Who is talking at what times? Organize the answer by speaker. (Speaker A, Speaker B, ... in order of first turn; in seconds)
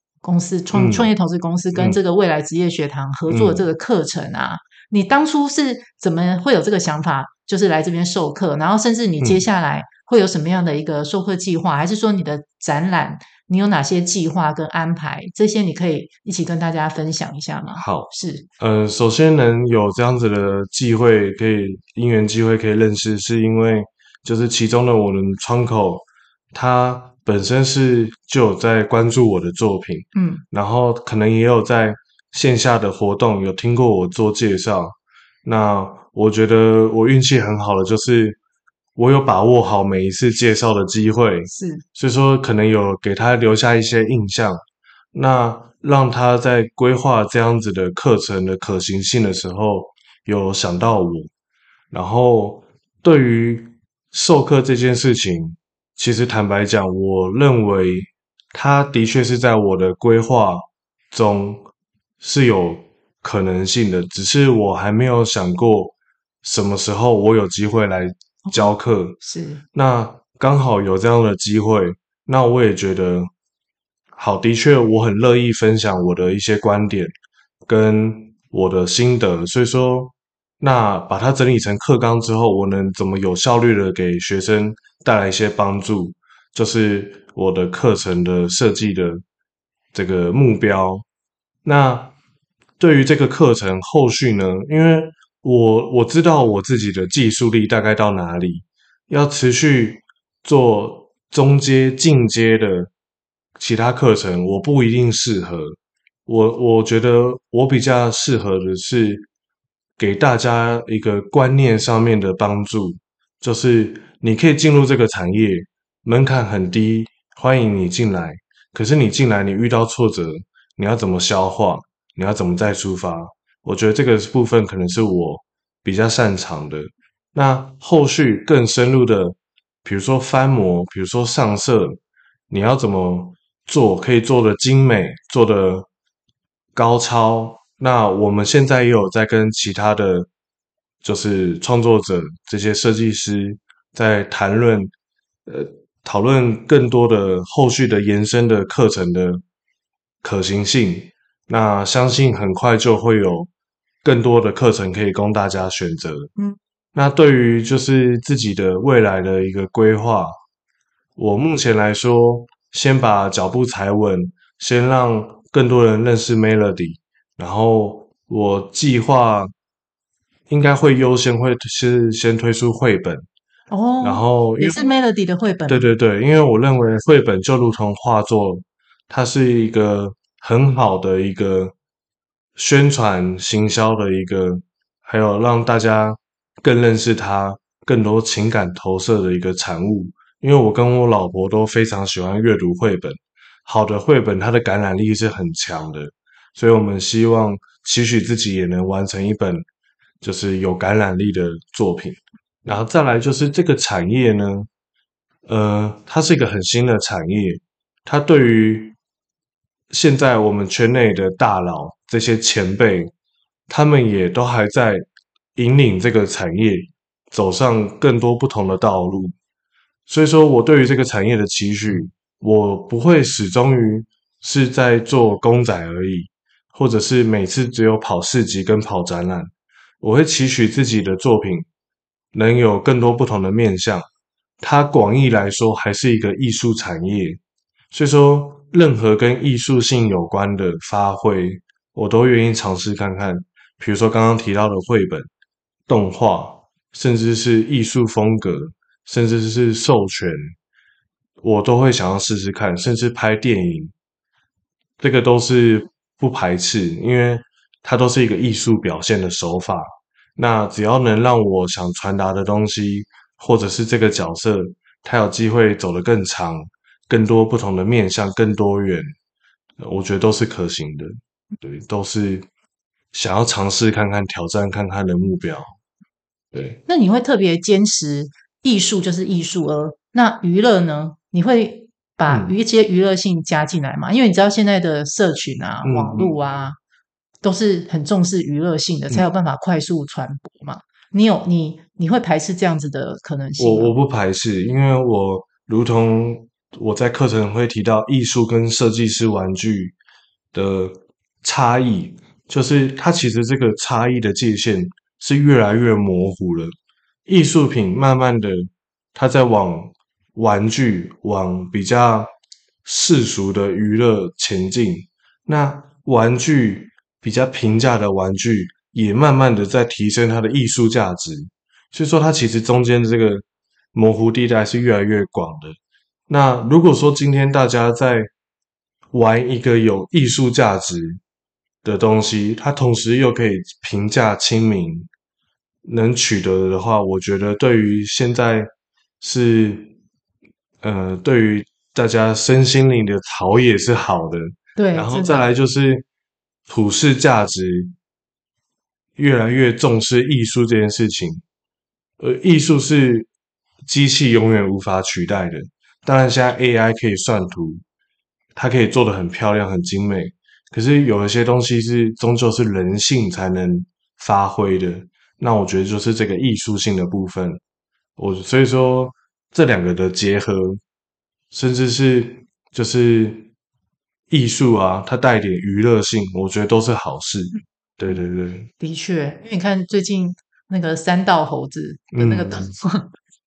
Speaker A: 0.2-18.5, 30.1-30.4, 41.5-41.8, 68.5-69.6, 173.7-175.8, 276.9-286.8, 287.4-293.9, 344.8-345.4, 378.8-383.1
Speaker B: 0.7-1.1, 3.3-3.6, 17.8-38.4, 39.0-44.6, 45.1-51.3, 51.9-61.6, 62.2-69.2, 69.7-73.3, 74.1-77.1, 77.7-89.2, 89.9-91.0, 91.6-92.1, 92.8-102.9, 103.6-109.3, 110.0-132.0, 132.5-135.9, 136.7-140.3, 141.0-144.9, 145.4-149.4, 150.2-153.5, 154.0-156.3, 156.9-160.4, 161.2-169.5, 170.5-173.2, 174.0-174.8, 175.7-181.7, 182.6-199.6, 200.2-204.7, 205.4-208.9, 209.9-213.1, 213.7-215.0, 215.6-219.3, 220.1-231.7, 232.3-234.1, 234.6-237.4, 237.9-245.3, 245.9-250.5, 251.4-253.9, 255.0-269.1, 269.8-272.4, 273.1-275.7, 276.5-276.8, 282.3-282.5, 285.8-286.4, 293.6-299.9, 300.5-306.7, 307.3-312.3, 312.8-328.3, 329.1-331.2, 331.8-335.1, 335.8-338.7, 339.2-339.9, 340.8-346.0, 346.7-347.9, 349.2-351.4, 352.2-353.3, 353.9-357.8, 358.5-367.6, 368.2-370.8, 371.5-373.5, 374.3-378.7, 382.1-382.7